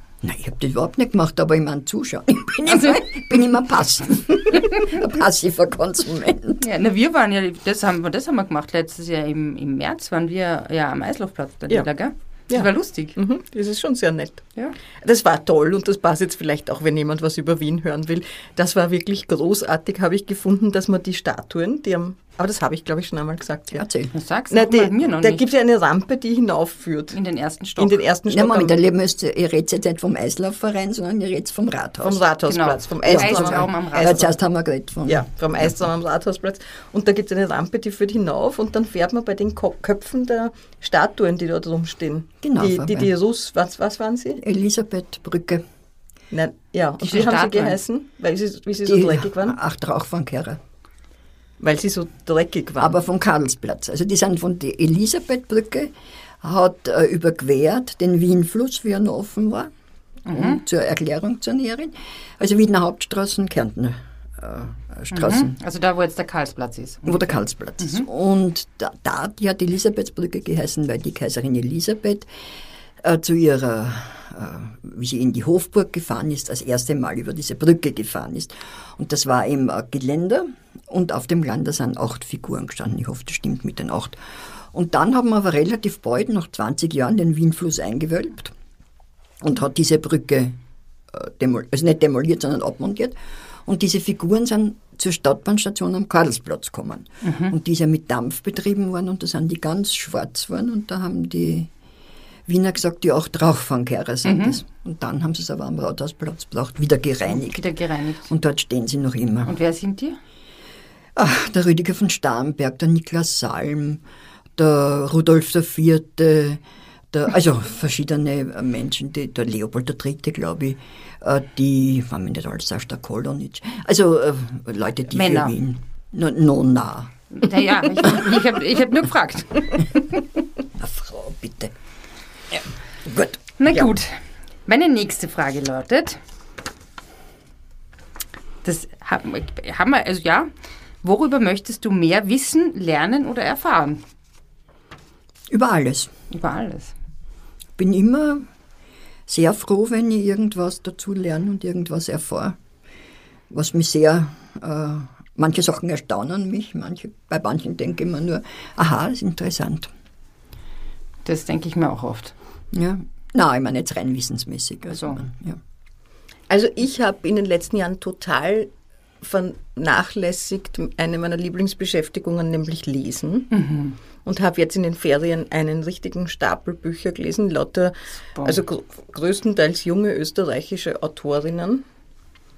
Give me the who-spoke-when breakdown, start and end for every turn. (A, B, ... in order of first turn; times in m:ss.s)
0:00.2-0:06.6 A
0:02.7-0:03.0 B
0:06.6-0:13.2 B
0:12.5-0:14.5 C
0:15.0-0:23.8 C
0:23.7-0:24.1 A
0:24.1-0:25.4 B
0:24.5-0:27.2 C
0:27.1-0:28.0 B
0:27.8-0:28.8 C
0:28.3-0:32.2 A
0:32.0-0:34.3 C
0:32.4-0:34.3 B
0:33.0-0:35.7 A
0:35.0-0:44.4 C
0:42.4-0:43.1 A
0:44.4-0:45.6 A
0:46.3-0:49.6 C
0:47.0-0:47.8 B
0:48.8-0:50.6 A
0:51.6-0:53.0 C
0:52.8-0:59.7 A
1:00.2-1:00.6 B
1:00.3-1:05.6 A
1:05.1-1:08.1 B
1:07.0-1:12.3 A
1:13.0-1:24.2 A
1:24.7-1:28.5 A
1:29.4-1:30.5 A
1:31.1-1:41.7 A
1:37.2-1:37.5 B
1:42.5-1:47.6 A
1:44.2-1:44.6 B
1:47.2-1:48.3 B
1:48.3-1:49.5 A
1:49.4-1:50.2 B
1:51.2-1:54.0 A
1:54.6-1:56.6 A
1:57.1-2:07.1 A
2:05.1-2:05.6 B
2:07.3-2:09.8 B
2:10.8-2:11.7 A
2:12.5-2:13.5 A
2:13.6-2:16.2 B
2:18.6-2:20.5 B
2:21.0-2:24.0 B
2:25.5-2:26.1 A
2:26.3-2:26.9 B
2:27.8-2:28.4 A
2:29.3-2:32.6 A
2:33.5-2:39.9 A
2:41.2-2:42.3 B
2:42.7-2:45.6 A
2:44.9-2:45.2 B
2:46.5-2:48.7 C
2:49.2-2:53.5 C
2:53.5-2:54.0 B
2:54.2-3:01.8 C
2:58.4-2:58.6 B